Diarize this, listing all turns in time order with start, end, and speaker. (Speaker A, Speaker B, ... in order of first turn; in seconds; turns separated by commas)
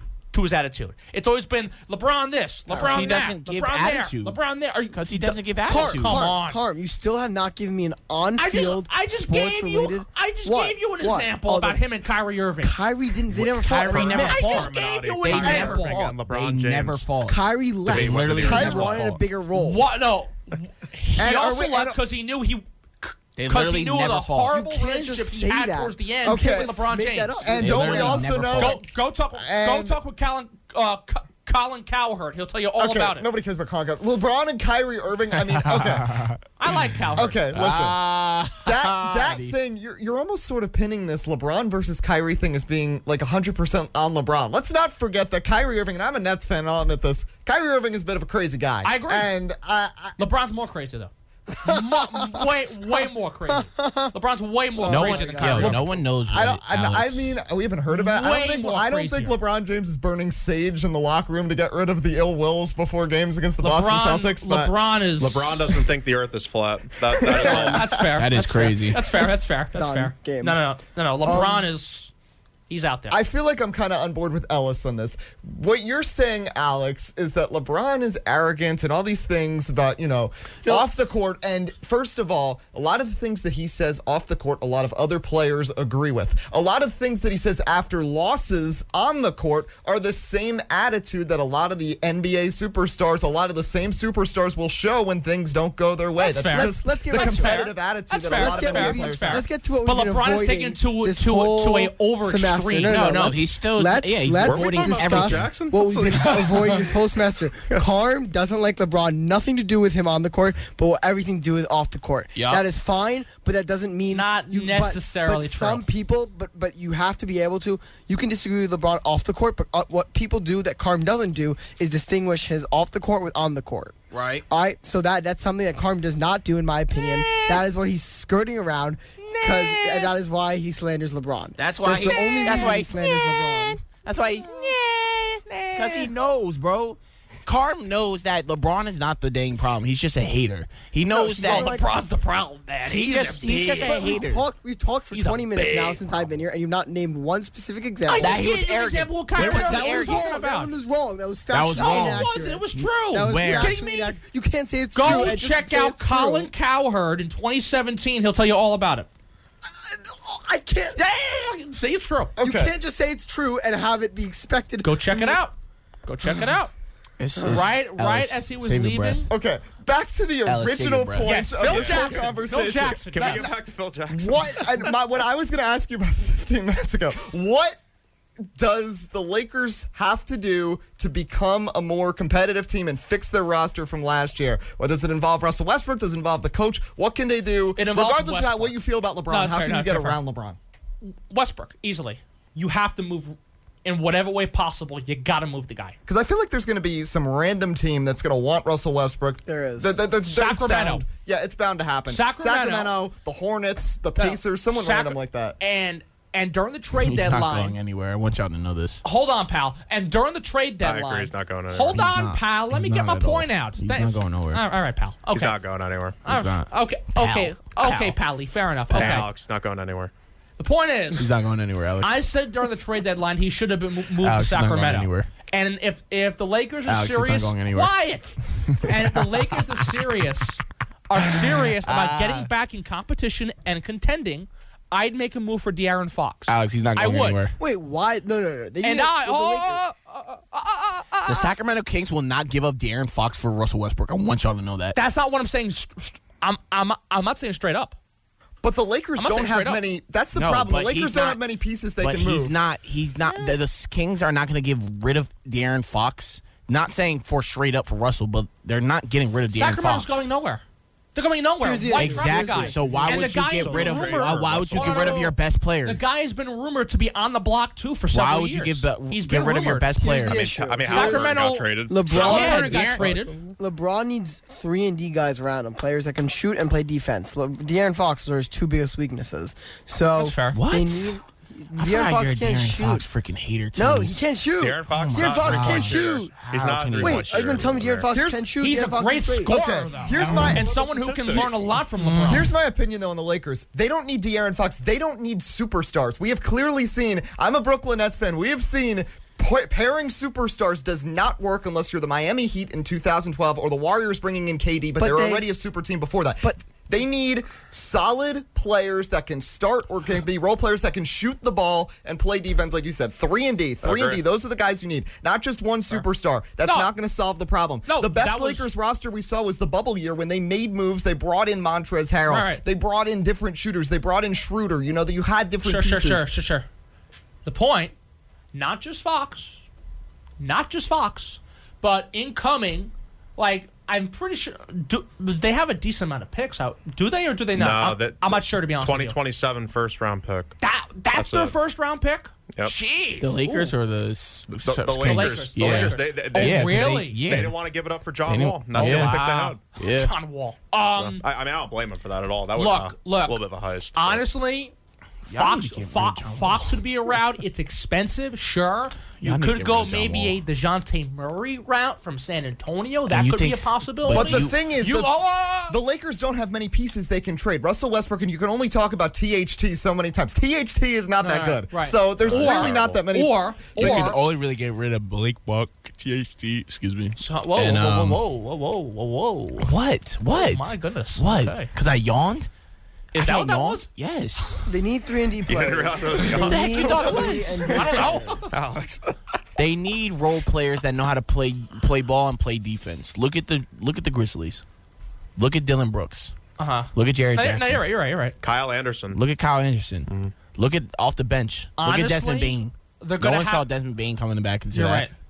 Speaker A: 0.3-6.6, Speaker B: 2.7-3.3, Speaker C: 2.8-4.4, Speaker C: 4.9-6.2, Speaker B: 5.6-11.8, Speaker A: 8.4-12.8, Speaker B: 12.6-14.5, Speaker C: 13.3-19.2, Speaker D: 13.8-17.2, Speaker A: 14.2-16.0, Speaker B: 17.2-19.9, Speaker D: 17.8-19.1, Speaker E: 18.5-18.9, Speaker A: 19.5-27.5, Speaker E: 21.2-22.0, Speaker C: 23.4-24.5, Speaker B: 24.5-28.2, Speaker E: 26.3-26.7, Speaker E: 27.4-30.0, Speaker C: 27.5-28.8, Speaker A: 28.5-33.2, Speaker E: 32.8-36.2, Speaker C: 35.3-39.5, Speaker A: 36.6-37.4, Speaker E: 37.1-38.0, Speaker E: 38.6-50.2, Speaker A: 48.8-49.3, Speaker A: 50.2-51.1, Speaker B: 51.5-52.5, Speaker A: 51.6-55.9, Speaker B: 53.0-54.1, Speaker B: 54.7-56.0, Speaker C: 54.9-57.3, Speaker E: 56.3-64.7, Speaker A: 57.9-59.4, Speaker A: 63.6-65.6, Speaker D: 65.2-67.9, Speaker E: 67.1-68.0, Speaker A: 67.4-72.1, Speaker C: 68.2-69.0, Speaker B: 69.7-70.6, Speaker B: 71.2-71.7, Speaker A: 72.7-73.2, Speaker E: 73.1-99.5, Speaker A: 96.2-103.3, Speaker B: 96.4-97.6, Speaker B: 98.3-124.0, Speaker C: 102.9-105.6, Speaker D: 104.4-107.0, Speaker C: 112.3-112.6, Speaker A: 114.1-115.8, Speaker C: 124.1-124.4, Speaker B: 124.5-133.9, Speaker C: 126.9-127.6, Speaker C: 129.3-130.1, Speaker C: 131.6-141.7, Speaker B: 141.1-141.9, Speaker A: 141.4-144.0, Speaker C: 142.9-144.4, Speaker B: 143.8-148.5, Speaker A: 145.1-146.0, Speaker A: 148.0-150.7, Speaker C: 148.2-150.3, Speaker B: 149.3-156.5, Speaker C: 151.5-153.8, Speaker A: 151.7-154.2, Speaker A: 154.9-159.1, Speaker B: 159.7-161.0, Speaker A: 160.9-162.3, Speaker E: 162.4-162.7, Speaker B: 162.4-165.4, Speaker A: 164.8-165.5, Speaker A: 166.1-166.7, Speaker C: 167.2-169.3, Speaker A: 167.4-169.3, Speaker E: 169.3-177.8, Speaker C: 170.4-171.4, Speaker A: 171.2-173.6, Speaker D: 171.6-172.3, Speaker D: 173.0-174.9, Speaker E: 178.5-190.6, Speaker A: 187.8-188.7, Speaker A: 189.3-190.2, Speaker A: 191.0-195.9, Speaker E: 196.1-205.6, Speaker B: 199.4-200.0, Speaker A: 200.3-201.0, Speaker A: 202.1-203.0, Speaker A: 204.2-207.8, Speaker C: 207.0-209.0, Speaker A: 209.0-215.6, Speaker D: 210.8-212.1, Speaker C: 211.9-214.6, Speaker D: 215.3-216.2, Speaker A: 216.2-219.3, Speaker C: 216.3-218.2, Speaker C: 218.9-219.2, Speaker D: 218.9-220.1, Speaker A: 220.6-221.3, Speaker C: 221.2-222.1, Speaker A: 222.0-237.5, Speaker C: 224.2-225.3, Speaker C: 226.9-227.9, Speaker C: 228.6-229.9, Speaker C: 231.2-232.5, Speaker C: 236.5-237.6, Speaker B: 237.6-239.8, Speaker A: 238.8-241.5, Speaker C: 241.3-245.0, Speaker A: 244.9-247.9, Speaker E: 248.6-252.6, Speaker A: 249.2-249.8, Speaker C: 250.3-251.4, Speaker C: 252.0-260.2, Speaker A: 253.3-253.5, Speaker A: 259.5-260.6, Speaker A: 261.1-269.9, Speaker B: 261.6-263.1, Speaker C: 262.0-266.0, Speaker D: 263.0-265.3, Speaker C: 268.1-270.5, Speaker B: 270.0-271.4, Speaker D: 270.2-272.6, Speaker A: 270.9-273.4, Speaker B: 271.9-283.1, Speaker C: 272.1-273.2, Speaker A: 280.1-280.6, Speaker C: 280.5-281.2, Speaker C: 281.7-284.1, Speaker B: 283.8-286.4, Speaker D: 284.6-288.1, Speaker C: 284.9-287.7, Speaker B: 287.0-289.6, Speaker E: 288.1-288.5, Speaker A: 288.6-292.5, Speaker E: 289.4-291.5, Speaker C: 290.2-290.6, Speaker D: 290.3-291.7, Speaker C: 291.9-292.5, Speaker E: 292.2-326.3, Speaker B: 305.0-305.4, Speaker D: 313.8-314.2, Speaker A: 316.6-316.9, Speaker A: 317.9-318.7, Speaker A: 322.3-322.6, Speaker A: 325.6-326.6, Speaker A: 327.4-327.9, Speaker A: 328.5-329.6, Speaker A: 330.4-339.2, Speaker D: 337.5-340.5, Speaker A: 340.6-343.7, Speaker D: 341.1-341.5, Speaker C: 343.2-347.6, Speaker D: 344.6-349.6, Speaker A: 345.0-347.2, Speaker C: 348.2-349.2, Speaker A: 348.7-351.2, Speaker C: 349.8-350.1, Speaker D: 350.9-354.2, Speaker A: 352.6-353.4, Speaker A: 353.9-354.7, Speaker C: 355.2-357.2, Speaker A: 355.3-365.8, Speaker C: 359.2-360.4, Speaker C: 363.1-364.6, Speaker E: 364.1-374.1, Speaker A: 371.2-374.2, Speaker D: 372.3-373.0, Speaker C: 372.3-372.8, Speaker C: 373.8-378.2, Speaker A: 377.2-379.7, Speaker C: 379.6-382.5, Speaker A: 380.3-381.7, Speaker C: 383.1-384.7, Speaker A: 383.1-383.9, Speaker B: 384.6-388.5, Speaker D: 385.4-387.4, Speaker C: 386.2-388.1, Speaker A: 387.0-388.5, Speaker D: 388.5-389.1, Speaker C: 389.6-394.6, Speaker C: 395.4-396.3, Speaker A: 396.6-398.3, Speaker C: 396.9-397.8, Speaker D: 398.4-399.2, Speaker C: 399.1-405.1, Speaker D: 400.1-400.3, Speaker A: 401.8-403.6, Speaker A: 404.7-405.1